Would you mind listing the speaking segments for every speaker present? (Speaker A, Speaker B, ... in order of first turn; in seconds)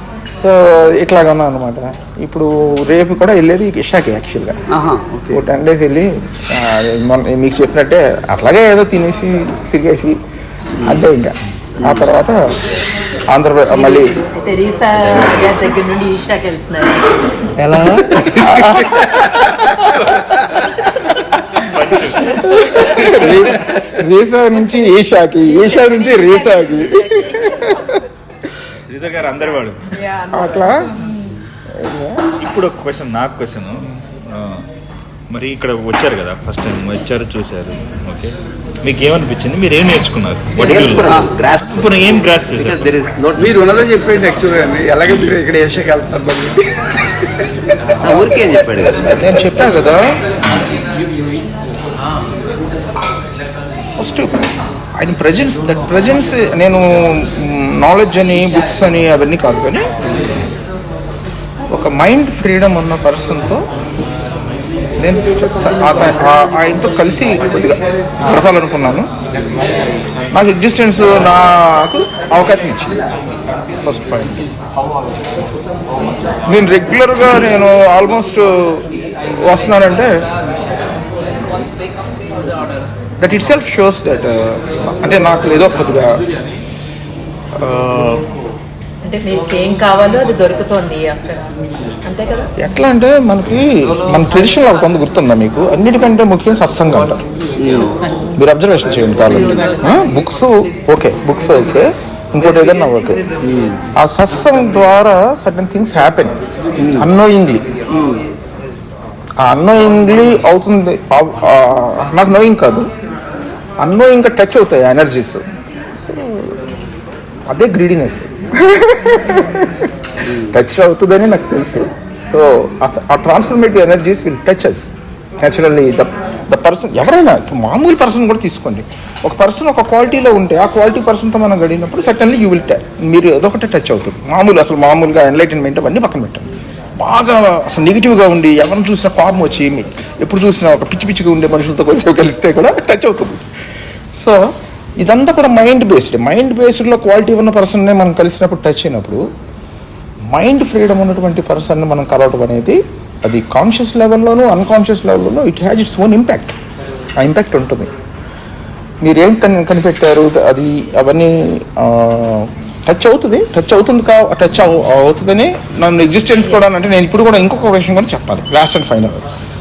Speaker A: 0.4-4.5, 5.3-10.2, 10.8-12.6, 13.3-14.2, 17.6-20.2, 22.2-28.0, 30.3-30.9, 31.7-32.2, 49.0-50.0, 54.0-59.9, 61.7-63.6, 65.0-69.1, 70.3-73.0, 73.8-74.4, 76.5-78.8, 79.5-80.1, 83.2-86.2, 87.7-88.2, 92.6-97.2, 98.3-103.2, 104.0-106.4, 107.0-107.6, 109.4-112.9, 113.8-115.4, 116.0-116.5, 117.5-136.5, 137.0-143.4, 145.0-149.2, 150.3-156.6, 157.2-157.9, 159.0-169.2
Speaker B: 4.7-5.4, 10.8-11.0, 11.8-12.1, 17.9-18.8, 43.4-46.8, 97.6-97.9, 103.4-103.8, 106.8-107.1, 107.9-108.2
Speaker C: 13.7-17.2, 25.5-26.9, 89.0-91.5, 92.0-92.5, 98.0-98.3
Speaker D: 21.5-23.8, 28.8-29.8, 32.4-34.6, 35.3-42.9
Speaker E: 40.5-43.5, 48.0-49.1